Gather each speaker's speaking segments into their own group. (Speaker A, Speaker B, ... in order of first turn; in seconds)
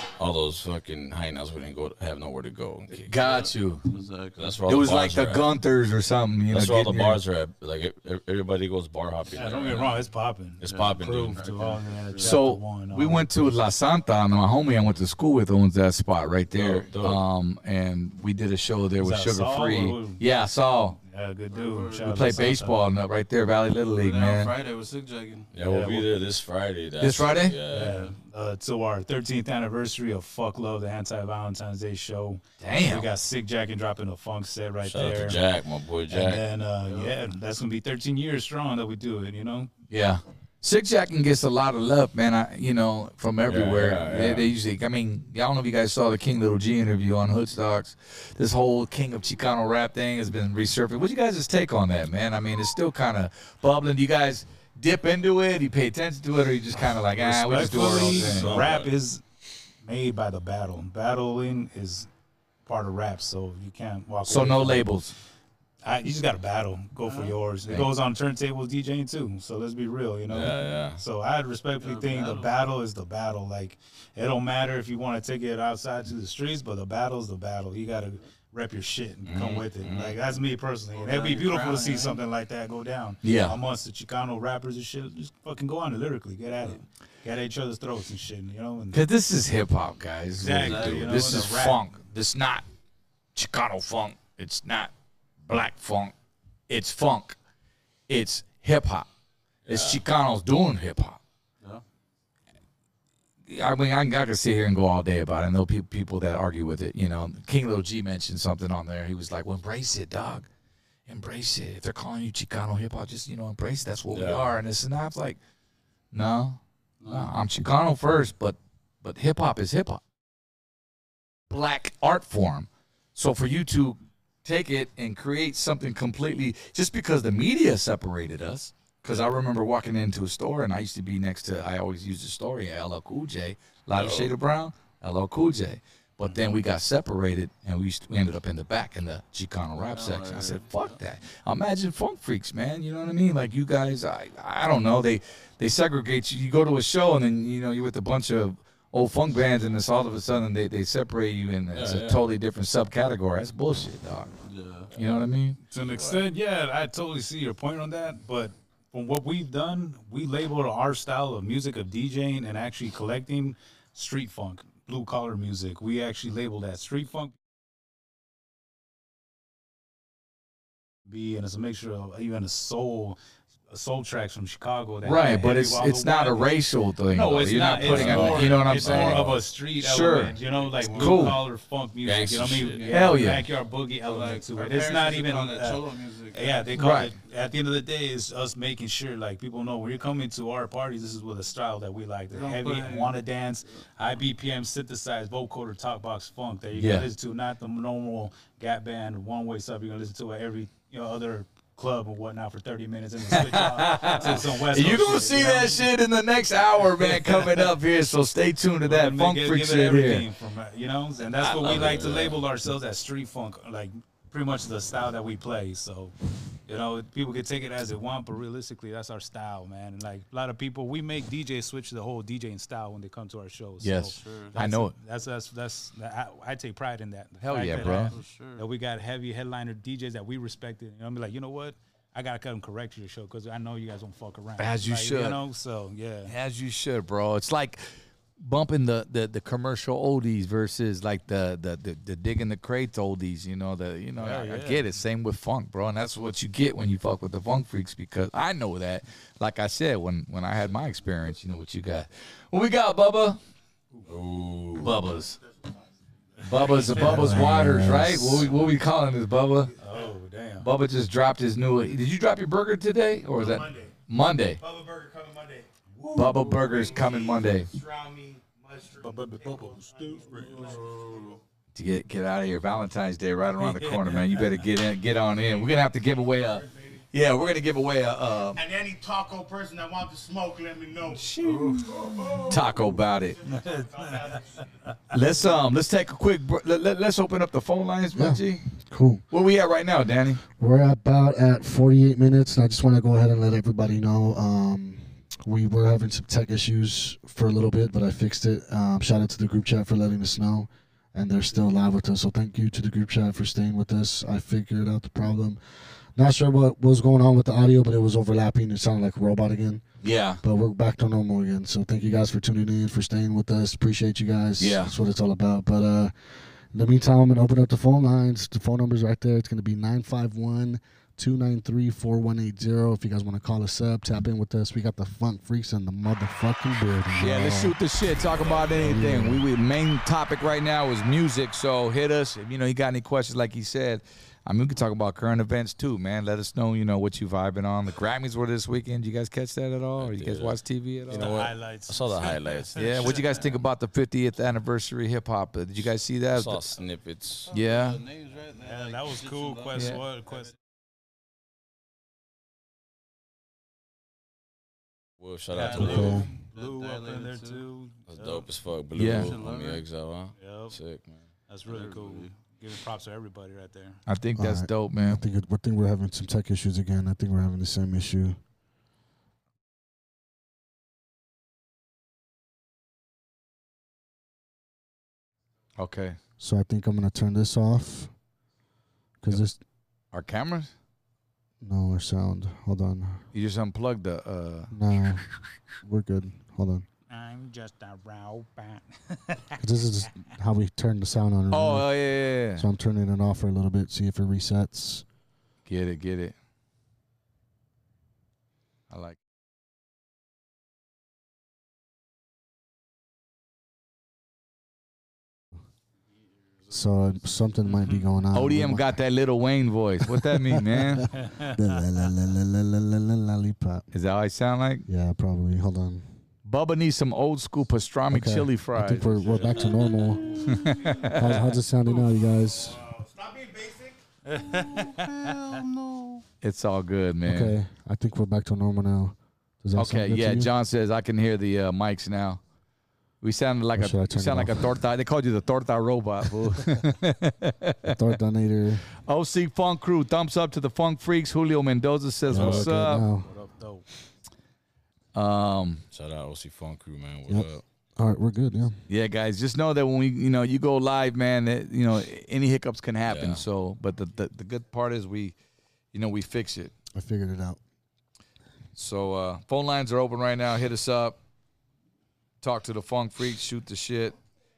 Speaker A: 0.2-3.1, 4.3-5.5, 6.5-10.0, 10.6-11.5, 16.5-17.2, 25.5-28.0, 34.8-36.4, 43.5-44.5, 57.7-58.9, 70.3-71.0, 79.2-80.2, 99.7-100.0, 114.1-114.5, 133.9-134.3, 151.7-152.2, 177.8-179.4, 182.0-182.9, 211.6-212.3, 254.1-254.9, 328.4-328.8, 340.0-343.2, 346.3-347.5, 355.2-356.2, 358.1-361.2, 442.3-442.6, 445.9-447.6, 453.1-453.4
Speaker B: 2.9-3.9, 4.7-7.2, 12.2-21.0, 22.0-24.5, 27.0-27.6, 32.6-33.1, 39.9-58.6, 64.2-65.1, 83.2-83.5, 88.9-92.6, 93.3-94.9, 95.4-96.1, 96.7-97.4, 98.1-99.1, 99.7-101.2, 103.5-110.5, 111.1-115.4, 116.1-120.0, 121.5-154.3, 154.9-155.6, 175.0-180.3, 180.9-181.4, 182.9-183.4, 186.7-187.1, 196.7-197.1, 203.3-210.2, 211.4-212.1, 223.8-224.9, 227.4-228.1, 234.6-235.4, 236.2-253.4, 254.8-255.4, 256.4-259.7, 260.6-264.6, 266.1-267.7, 271.7-278.6, 281.1-283.4, 285.1-288.6, 289.3-290.4, 310.0-310.4, 314.6-314.9, 327.1-341.5, 342.8-346.6, 347.5-348.0, 358.9-359.3, 364.1-365.2, 375.8-376.2, 380.1-380.7, 383.3-384.7, 391.5-392.6, 395.6-396.3, 398.9-399.2, 408.3-411.1, 413.9-414.9, 416.4-419.3, 420.5-421.6, 426.4-427.6, 429.7-432.4, 433.2-438.0, 439.0-443.1, 445.1-445.8, 448.9-455.4, 455.9-456.7, 458.8-461.2, 462.4-464.2
Speaker C: 3.2-4.6, 10.7-12.4, 21.5-22.3, 23.9-25.5, 27.7-28.1, 36.8-37.1, 67.0-67.3, 71.8-72.5, 81.0-82.2, 90.5-91.3, 117.0-117.3, 139.8-141.0, 154.4-154.9, 180.4-181.3, 182.8-183.2, 184.0-186.7, 192.3-193.2, 224.2-224.6, 227.8-228.6, 270.3-271.4, 347.4-349.9, 355.6-357.6, 359.0-359.8, 361.6-362.4, 406.1-407.6, 419.9-420.6, 424.4-426.2
Speaker D: 9.3-13.5, 19.0-20.2, 21.0-22.8, 25.6-26.1, 27.7-35.4, 36.1-39.7, 57.1-59.2, 59.8-62.1, 62.6-64.9, 65.8-89.0, 90.4-91.9, 155.7-167.3, 171.1-176.6, 177.1-205.9, 207.0-207.7, 208.8-216.1, 216.7-236.3, 244.2-244.8, 256.6-257.4, 259.8-260.7, 265.9-266.6, 269.0-270.8, 273.6-274.4, 281.8-282.1, 283.5-284.4, 341.1-343.2, 348.6-350.5, 355.5-358.4, 360.4-360.8, 361.5-364.0, 387.1-389.6, 411.1-411.8, 424.2-425.4, 443.2-443.9
Speaker E: 256.4-256.7, 259.8-260.1, 263.4-263.9, 264.6-265.7, 266.2-271.4, 276.3-277.0, 278.5-284.8, 422.5-424.0
Speaker F: 256.9-258.4, 288.1-289.2, 290.6-305.6, 306.1-309.8, 310.4-316.1, 316.7-327.8, 328.8-329.4, 355.8-356.3, 364.4-368.4, 376.4-378.1, 379.2-379.6, 381.6-383.2, 384.7-386.9, 389.6-395.0, 406.7-408.9, 410.1-413.9, 414.9-416.1, 418.1-422.8, 427.2-430.5, 433.8-434.7, 437.8-438.9, 442.3-443.3, 447.3-448.8, 456.9-457.6